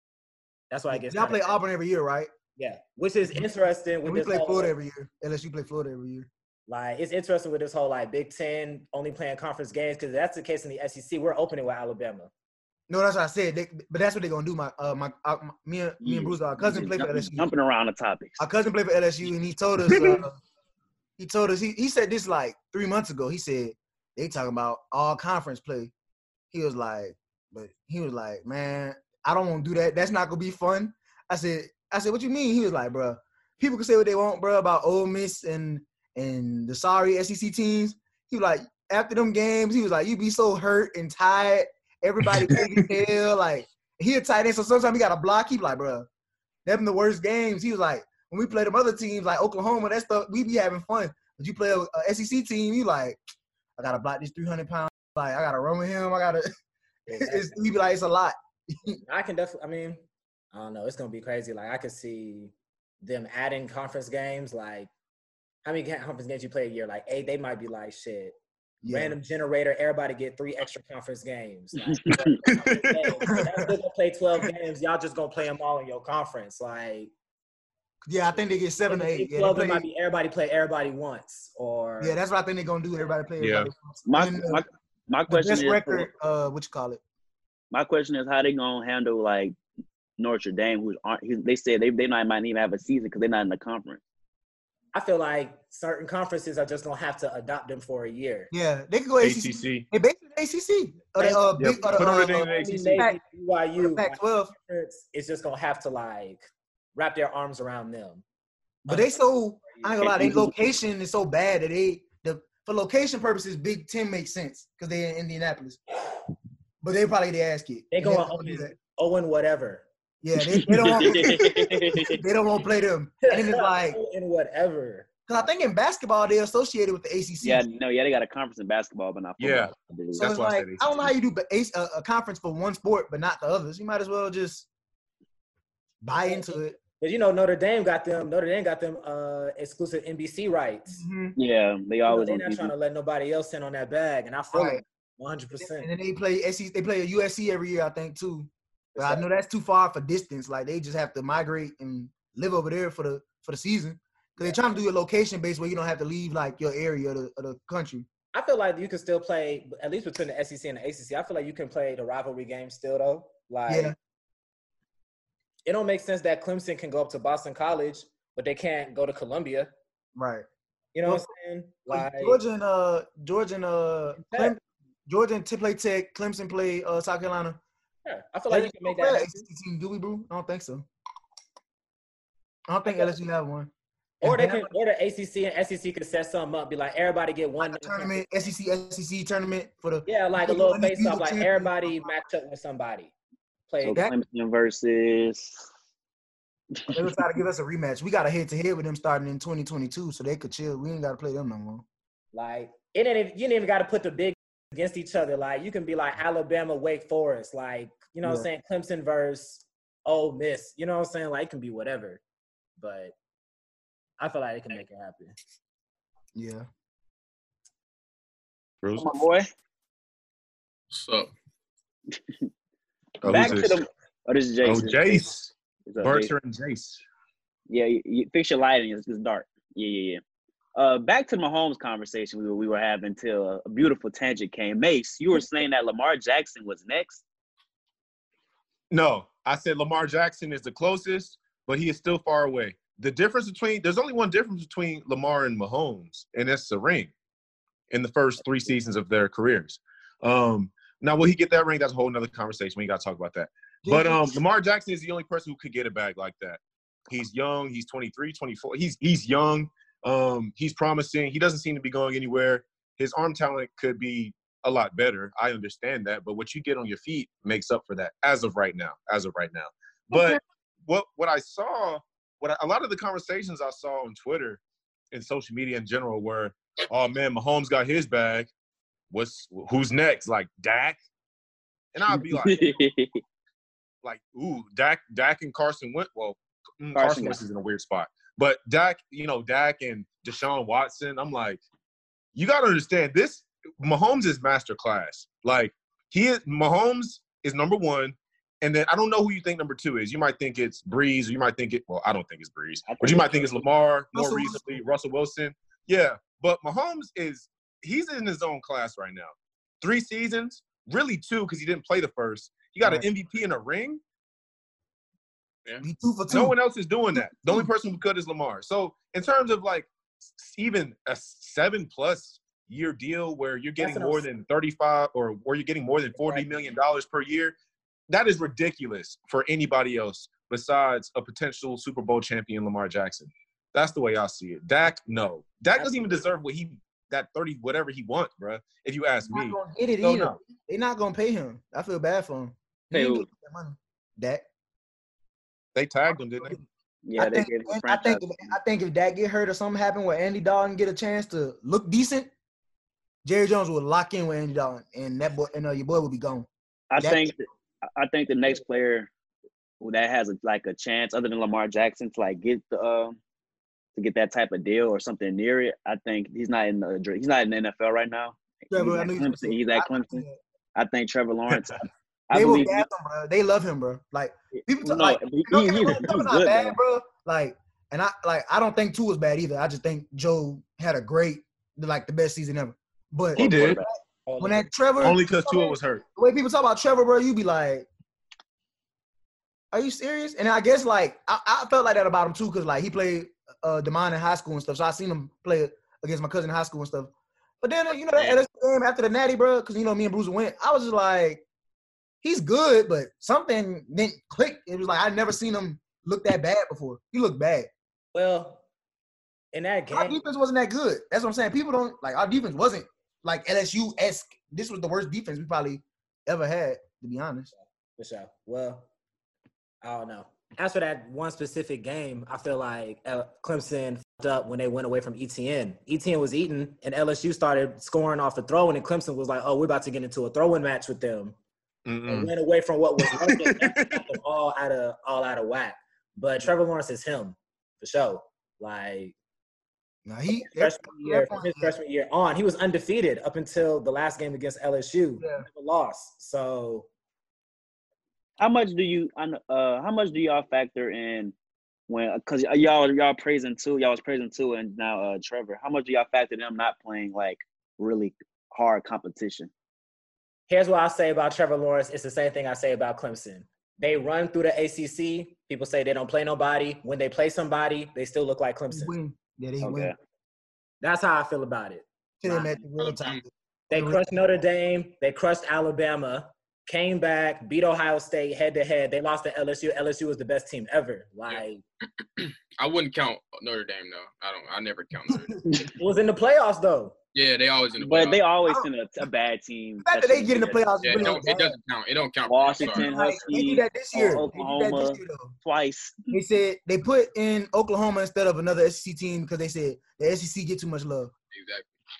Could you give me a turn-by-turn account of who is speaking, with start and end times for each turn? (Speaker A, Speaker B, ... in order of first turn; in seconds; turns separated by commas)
Speaker A: 0.7-1.6, Speaker B: 0.9-2.3, Speaker A: 2.6-4.7, Speaker B: 4.0-6.3, Speaker A: 6.7-12.3, Speaker B: 12.9-17.5, Speaker C: 16.0-18.4, Speaker B: 18.4-20.4, Speaker B: 21.2-25.9, Speaker B: 26.5-46.1, Speaker B: 46.6-53.2, Speaker B: 53.8-56.5, Speaker A: 57.1-57.5, Speaker B: 57.1-59.0, Speaker A: 59.0-64.9, Speaker A: 65.6-68.3, Speaker B: 68.8-69.2, Speaker A: 68.9-77.1, Speaker C: 71.9-72.3, Speaker D: 72.5-73.2, Speaker B: 73.2-73.7, Speaker B: 78.0-79.8, Speaker A: 78.9-82.2, Speaker B: 82.0-84.6, Speaker D: 83.4-83.7, Speaker C: 84.0-86.1, Speaker B: 85.3-87.0, Speaker C: 87.7-89.5, Speaker C: 90.2-94.0, Speaker A: 94.9-98.5, Speaker B: 98.5-103.2, Speaker D: 99.2-99.8, Speaker A: 101.2-106.4, Speaker D: 101.6-103.0, Speaker B: 103.8-104.5, Speaker A: 107.0-108.2, Speaker B: 108.8-115.8, Speaker A: 108.9-110.5, Speaker B: 116.8-118.7, Speaker A: 117.9-119.8, Speaker B: 120.2-124.0, Speaker C: 120.5-122.2, Speaker A: 123.2-125.5, Speaker B: 125.3-127.6, Speaker C: 127.4-130.3, Speaker D: 129.4-130.9, Speaker B: 130.2-134.7, Speaker B: 136.0-136.8, Speaker A: 136.2-141.0, Speaker B: 140.9-141.3, Speaker C: 141.3-142.7, Speaker A: 142.1-145.9, Speaker B: 144.5-144.8, Speaker B: 145.6-158.1, Speaker A: 148.9-149.3, Speaker A: 158.3-163.9, Speaker B: 163.7-163.9, Speaker A: 165.7-169.7, Speaker B: 170.2-170.4, Speaker A: 170.9-172.4, Speaker B: 171.9-177.6, Speaker A: 174.1-174.6, Speaker A: 178.0-179.4, Speaker B: 178.5-180.9, Speaker B: 182.7-184.7, Speaker A: 182.8-183.1, Speaker A: 184.2-188.3, Speaker B: 187.6-192.1, Speaker A: 190.1-193.1, Speaker A: 193.7-194.1, Speaker C: 193.8-195.7, Speaker B: 196.9-201.8, Speaker A: 202.3-212.2, Speaker A: 212.8-213.1, Speaker A: 214.2-215.3, Speaker B: 216.3-216.7, Speaker D: 218.8-219.1, Speaker C: 218.9-219.4, Speaker E: 220.9-221.3, Speaker D: 223.2-223.8, Speaker C: 223.2-225.3, Speaker D: 224.6-227.0, Speaker C: 225.9-226.3, Speaker C: 227.7-230.2, Speaker C: 230.8-237.2, Speaker D: 238.9-247.1, Speaker D: 247.9-274.6, Speaker B: 253.8-254.4, Speaker D: 275.1-278.5, Speaker D: 279.1-281.0, Speaker D: 281.9-282.8, Speaker C: 282.1-283.2, Speaker D: 284.0-291.6, Speaker C: 286.9-287.4, Speaker D: 292.3-314.0, Speaker C: 302.9-303.6, Speaker B: 304.1-304.8, Speaker B: 312.8-313.1, Speaker B: 315.8-316.5, Speaker D: 316.3-327.6, Speaker B: 317.1-317.7, Speaker A: 323.8-324.2, Speaker A: 326.1-326.5, Speaker D: 328.1-340.4, Speaker A: 335.7-336.2, Speaker B: 339.3-344.4, Speaker C: 342.9-343.2, Speaker D: 345.7-346.6, Speaker C: 347.0-348.5, Speaker B: 347.1-352.3, Speaker B: 353.2-357.3, Speaker C: 356.9-359.1, Speaker C: 359.8-363.2, Speaker C: 363.9-372.8, Speaker B: 368.7-370.4, Speaker B: 372.3-387.9, Speaker C: 374.6-376.8, Speaker D: 383.4-383.8, Speaker C: 383.4-383.9, Speaker A: 384.3-384.7, Speaker D: 385.0-386.0, Speaker B: 389.7-397.1, Speaker B: 397.6-401.4, Speaker B: 402.2-407.7, Speaker A: 408.1-408.6, Speaker A: 409.5-410.2, Speaker B: 409.9-417.5, Speaker A: 417.5-418.9, Speaker A: 419.8-431.4, Speaker D: 431.9-432.3, Speaker A: 432.1-439.1, Speaker D: 433.0-434.0, Speaker B: 440.1-441.7, Speaker A: 440.3-446.9, Speaker B: 445.2-445.5, Speaker C: 448.4-451.3, Speaker C: 451.9-459.5, Speaker A: 460.5-468.9, Speaker B: 468.7-469.9, Speaker C: 469.6-469.9, Speaker A: 470.8-472.6, Speaker B: 472.2-474.0, Speaker E: 472.8-473.2, Speaker A: 473.7-481.6, Speaker E: 482.2-485.4, Speaker A: 485.7-486.9, Speaker E: 487.1-488.2, Speaker C: 487.8-491.2, Speaker B: 489.8-491.6, Speaker E: 490.8-493.3, Speaker C: 492.2-496.1, Speaker B: 492.6-495.3, Speaker B: 496.1-501.1, Speaker E: 501.3-501.7